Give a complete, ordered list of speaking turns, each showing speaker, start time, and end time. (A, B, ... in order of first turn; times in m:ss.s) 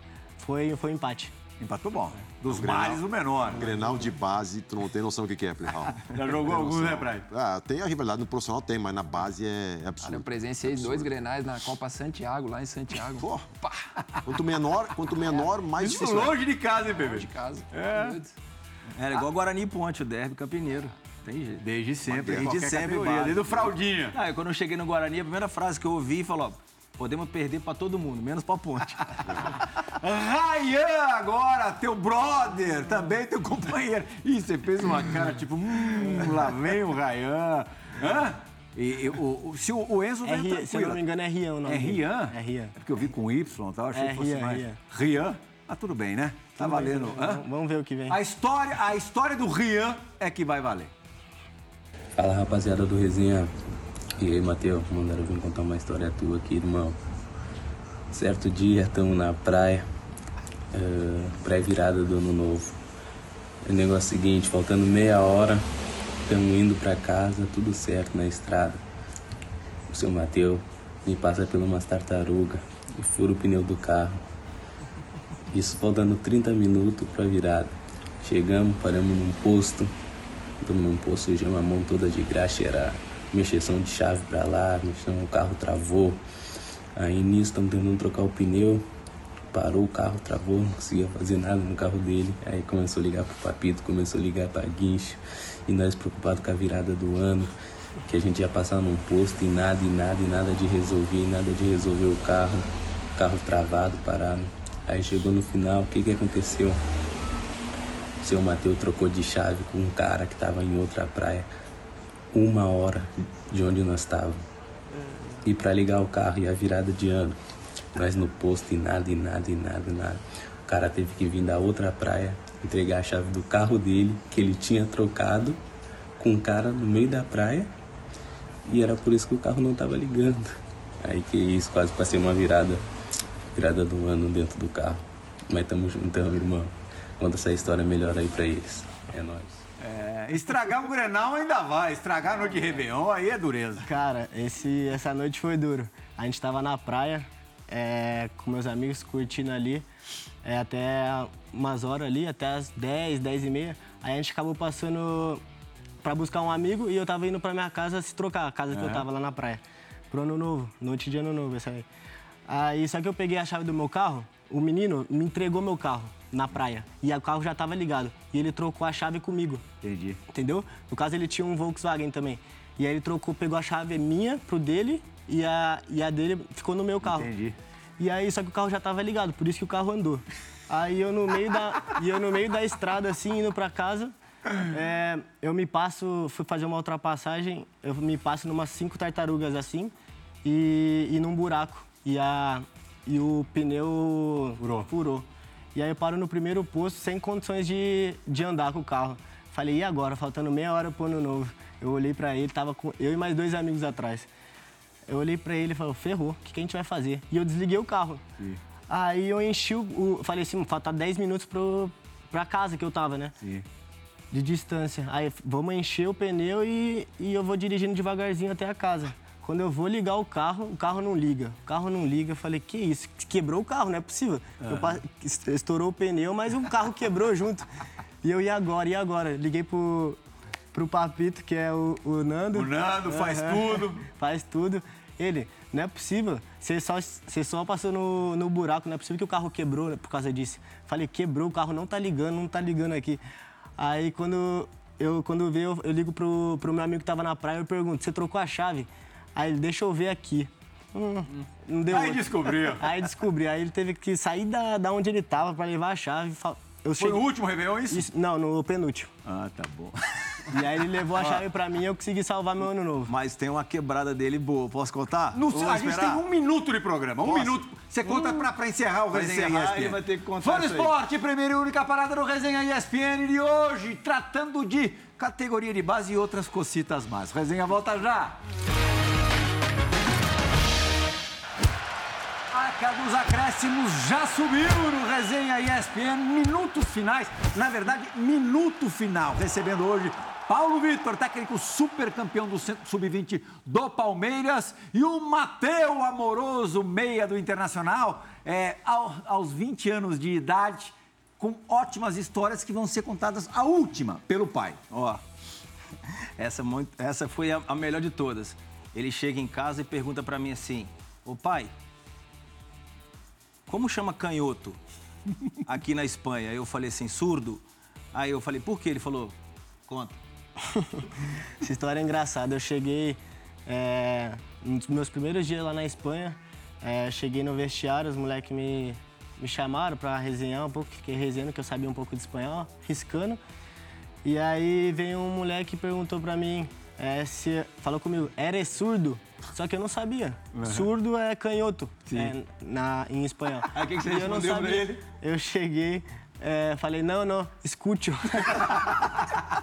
0:00.4-0:01.3 A
0:01.6-0:03.7 B
0:02.5-0:11.1 C
0:06.1-0:07.3 B
0:10.0-0:13.9 D
0:13.2-0:13.4 C
0:14.2-0:16.4 C
0:15.8-0:18.2 B
0:16.9-0:18.3 D
0:19.0-0:29.6 E
0:21.6-0:24.2 B
0:22.1-0:22.5 C
0:29.3-0:41.0 B
0:40.2-0:42.7 A
0:41.6-0:47.5 B
0:43.9-0:44.8 A
0:46.6-0:48.2 A
0:48.1-0:50.9 B
0:52.1-0:53.5 F
0:54.2-0:57.0 F
0:58.1-0:59.8 F
1:00.7-1:02.8 F
1:03.6-1:05.7 F
1:06.2-1:08.8 F
1:09.9-1:14.2 F
1:15.5-1:19.9 F
1:20.6-1:26.2 F
1:27.0-1:28.8 F
1:29.5-1:37.5 F
1:38.0-1:46.8 F
1:48.2-1:51.5 F
1:52.3-1:54.4 F
1:55.4-1:57.4 F
1:57.9-2:05.6 F
2:06.2-2:07.7 F
2:08.7-2:12.8 F
2:13.5-2:19.6 F
2:19.8-2:23.9 B
2:23.8-2:29.8 A
2:30.4-2:35.4 A
2:36.0-2:41.8 A
2:38.7-2:39.0 B
2:42.5-2:49.6 A
2:49.8-2:50.2 B
2:50.3-2:57.3 A
2:57.0-2:57.6 B
2:58.0-3:09.9 A
3:10.4-3:24.3 A
3:14.6-3:14.9 B
3:25.1-3:28.2 A
3:28.9-3:33.3 A
3:33.4-3:33.6 B
3:34.3-3:47.7 A
3:44.6-3:45.0 B
3:48.2-3:50.2 A
3:50.7-4:03.2 A
3:52.5-3:54.1 B
4:03.8-4:17.2 A
4:11.8-4:13.0 B
4:17.0-4:18.1 B
4:17.9-4:19.1 A
4:19.2-4:21.4 B
4:20.5-4:23.1 A
4:23.1-4:26.2 E
4:25.3-4:38.4 B
4:27.2-4:28.5 E
4:29.1-4:30.9 E
4:42.5-5:04.8 B
5:04.9-5:05.2 E
5:06.4-5:11.7 E
5:13.7-5:14.8 E
5:15.6-5:19.4 E
5:19.9-5:20.2 E
5:20.7-5:21.1 A
5:21.6-5:33.4 A
5:34.2-5:48.8 A
5:40.5-5:40.9 B
5:42.1-5:42.3 B
5:43.7-5:45.0 E